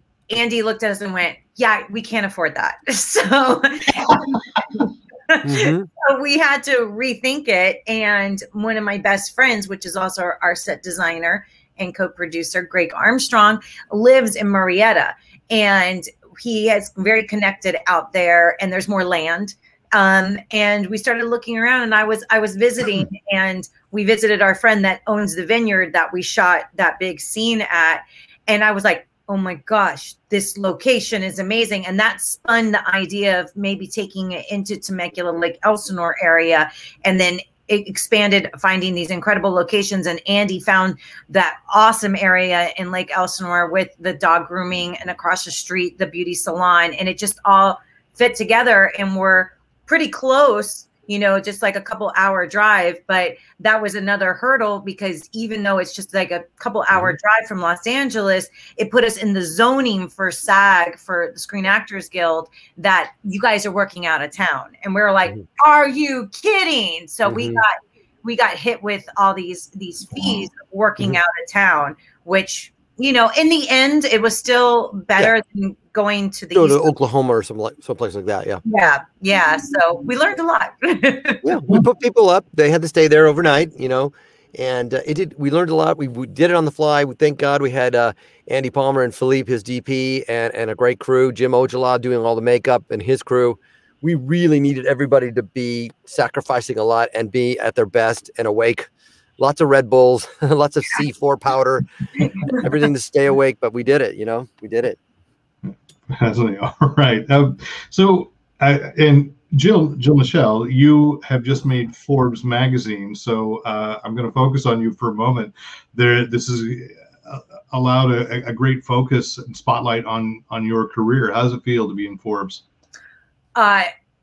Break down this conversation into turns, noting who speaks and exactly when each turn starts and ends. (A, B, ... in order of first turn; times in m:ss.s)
0:00.3-1:16.9 A
0:05.4-0:05.9 B
1:07.3-1:07.6 B
1:16.5-1:18.6 B
1:18.6-1:21.5 A
1:21.4-1:38.9 B
1:39.4-1:41.9 B
1:42.5-1:45.0 B
1:45.7-2:02.6 C
2:03.6-2:03.9 A